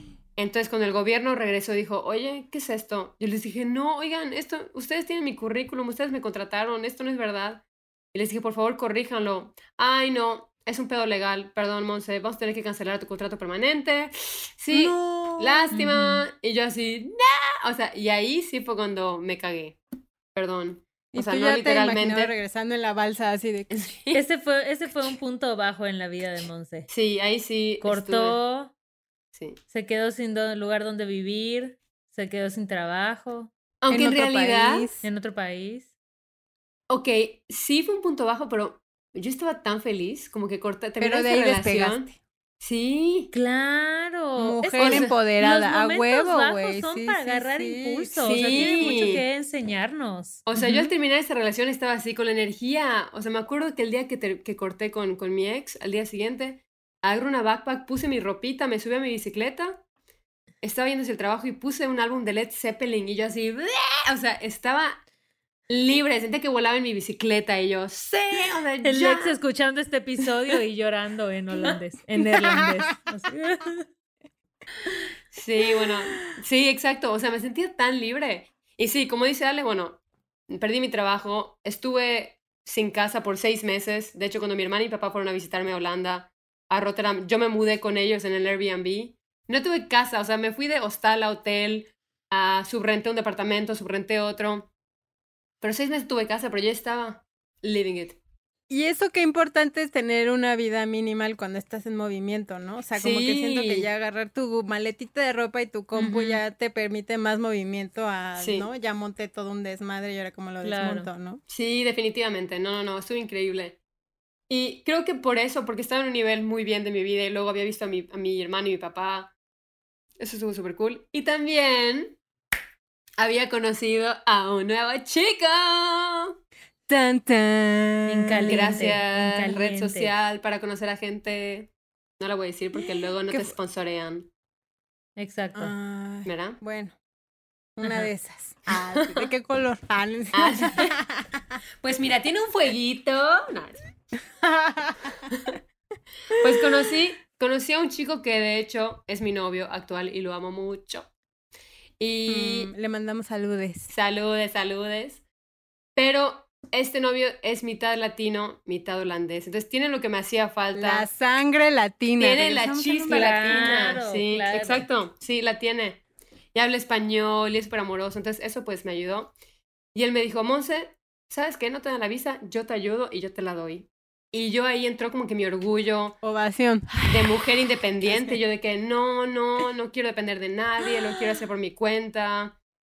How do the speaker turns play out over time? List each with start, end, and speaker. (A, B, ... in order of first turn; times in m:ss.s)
0:00.4-0:19.8 A
0:14.7-0:15.7 B
0:15.7-0:16.2 C
0:20.3-0:22.3 A
0:21.1-0:23.9 B
0:23.7-0:24.2 A
0:24.1-0:26.9 C
0:26.9-0:28.4 A
0:27.8-0:28.7 C
0:29.7-0:33.5 C
0:33.8-0:34.9 A
0:33.9-0:35.0 B
0:35.0-0:35.9 C
0:36.9-0:42.1 A
0:41.0-0:42.2 B
0:42.6-0:43.3 A
0:43.3-0:50.9 C
0:44.4-0:49.2 B
0:44.8-0:45.1 A
0:48.2-0:49.2 A
0:50.4-0:59.8 A
1:00.6-1:05.0 A
1:05.7-1:09.4 A
1:08.8-1:13.9 C
1:12.2-1:12.8 B
1:15.3-1:34.7 A
1:35.6-1:38.2 A
1:38.7-1:51.4 B
1:43.0-1:43.9 A
1:45.9-1:46.4 C
1:48.4-1:48.7 A
1:50.6-1:51.1 C
1:51.5-1:53.8 A
1:54.5-1:59.3 A
2:00.2-2:02.2 A
2:03.2-2:06.3 A
2:06.9-2:08.8 B
2:08.1-2:10.1 C
2:08.5-2:14.3 A
2:13.3-2:13.5 B
2:15.2-2:15.7 C
2:15.5-2:16.9 B
2:16.2-2:16.6 A
2:17.8-2:21.4 B
2:17.8-2:18.1 C
2:18.9-2:19.3 A
2:20.3-2:20.9 A
2:21.8-2:23.8 A
2:24.4-2:25.2 B
2:25.3-2:25.6 A
2:26.3-2:31.1 A
2:32.0-2:32.7 A
2:32.3-2:33.9 B
2:33.9-2:35.2 A
2:36.0-2:41.1 A
2:40.7-2:44.0 B
2:42.2-2:46.0 A
2:43.1-2:44.9 C
2:46.5-2:49.3 A
2:49.9-2:56.2 A
2:56.2-2:57.4 B
2:57.0-3:02.5 A
2:58.0-2:58.4 B